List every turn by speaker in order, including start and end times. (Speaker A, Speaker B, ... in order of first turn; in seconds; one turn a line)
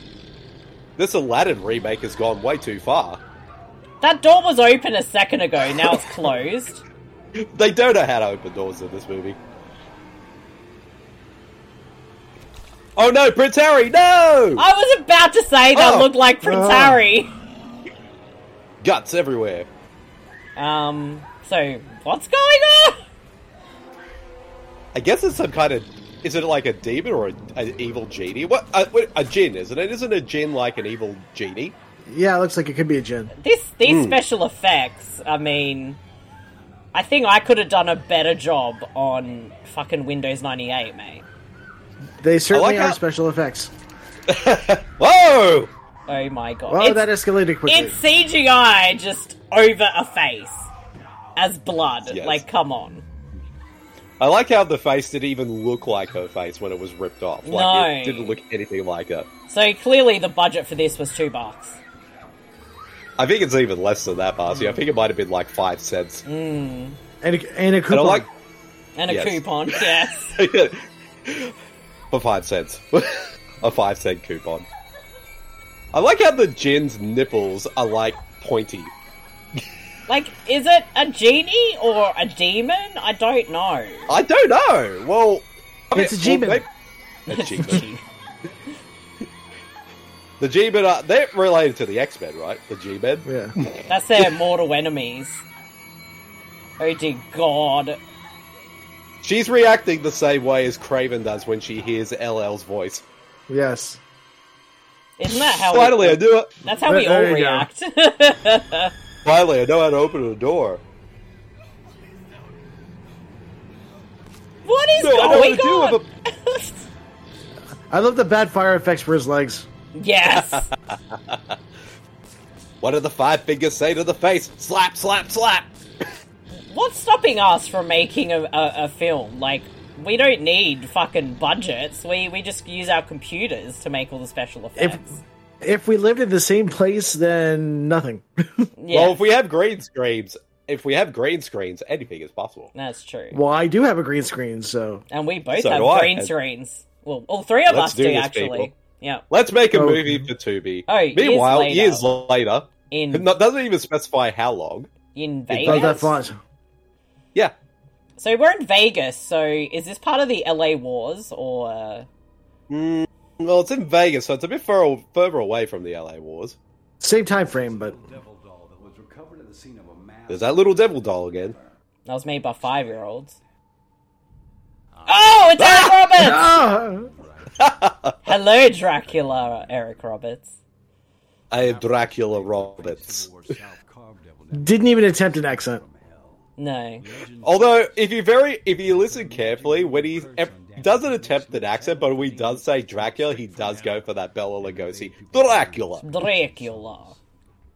Speaker A: 1.0-3.2
Speaker B: 4.0-6.8
Speaker A: 7.3-9.4
Speaker A: 12.9-14.6
Speaker B: 14.6-17.3
Speaker A: 15.8-16.1
Speaker C: 16.4-17.0
Speaker A: 18.8-19.7
Speaker B: 20.6-23.0
Speaker A: 24.9-31.8
Speaker C: 32.1-33.3
Speaker B: 33.4-36.0
Speaker A: 33.8-34.2
Speaker B: 36.9-41.2
Speaker C: 42.2-43.7
Speaker A: 42.5-43.0
Speaker A: 44.3-45.7
Speaker B: 46.1-47.1
Speaker C: 46.7-48.0
Speaker B: 47.6-50.7
Speaker B: 51.4-53.0
Speaker A: 52.1-52.4
Speaker A: 54.2-59.3
Speaker B: 57.4-58.4
Speaker B: 59.5-61.8
Speaker A: 63.2-66.2
Speaker B: 66.2-67.0
Speaker C: 67.2-68.3
Speaker A: 67.9-68.3
Speaker B: 69.0-70.4
Speaker A: 69.1-69.8
Speaker A: 70.3-71.5
Speaker A: 72.1-74.7
Speaker A: 75.9-78.9
Speaker B: 80.1-84.1
Speaker A: 84.1-86.7
Speaker C: 85.9-86.6
Speaker A: 87.3-87.9
Speaker B: 87.3-88.0
Speaker A: 90.4-94.3
Speaker C: 93.2-93.5
Speaker B: 93.9-95.4
Speaker B: 96.8-98.0
Speaker A: 99.2-103.0
Speaker C: 103.5-104.0
Speaker B: 105.2-108.9
Speaker A: 105.3-106.5
Speaker C: 106.7-107.7
Speaker A: 109.2-110.8
Speaker B: 114.6-116.8
Speaker A: 115.0-116.0
Speaker C: 117.9-119.7
Speaker B: 119.9-120.7
Speaker A: 120.3-121.5
Speaker A: 122.8-125.7
Speaker B: 126.5-135.2
Speaker C: 134.8-135.1
Speaker C: 135.6-138.7
Speaker B: 138.8-139.2
Speaker A: 138.9-142.7
Speaker B: 142.7-143.4
Speaker C: 143.3-145.0
Speaker B: 145.1-149.2
Speaker A: 145.5-146.3
Speaker A: 147.7-148.7
Speaker A: 149.3-154.9
Speaker C: 149.7-150.3
Speaker B: 150.9-152.1
Speaker B: 152.9-153.3
Speaker B: 155.1-156.2
Speaker A: 155.5-156.0
Speaker C: 155.6-156.4
Speaker B: 158.2-162.1
Speaker A: 162.7-166.6
Speaker C: 167.0-168.0
Speaker D: 167.2-171.8
Speaker A: 170.3-171.6
Speaker B: 172.1-173.4
Speaker D: 174.9-177.8
Speaker B: 175.1-176.4
Speaker A: 175.6-176.1
Speaker C: 176.2-177.1
Speaker A: 177.6-178.2
Speaker B: 178.2-180.6
Speaker D: 178.9-180.0
Speaker A: 181.5-183.3
Speaker D: 181.5-197.2
Speaker C: 184.5-185.8
Speaker B: 186.6-187.0
Speaker A: 187.4-196.1
Speaker B: 196.0-197.2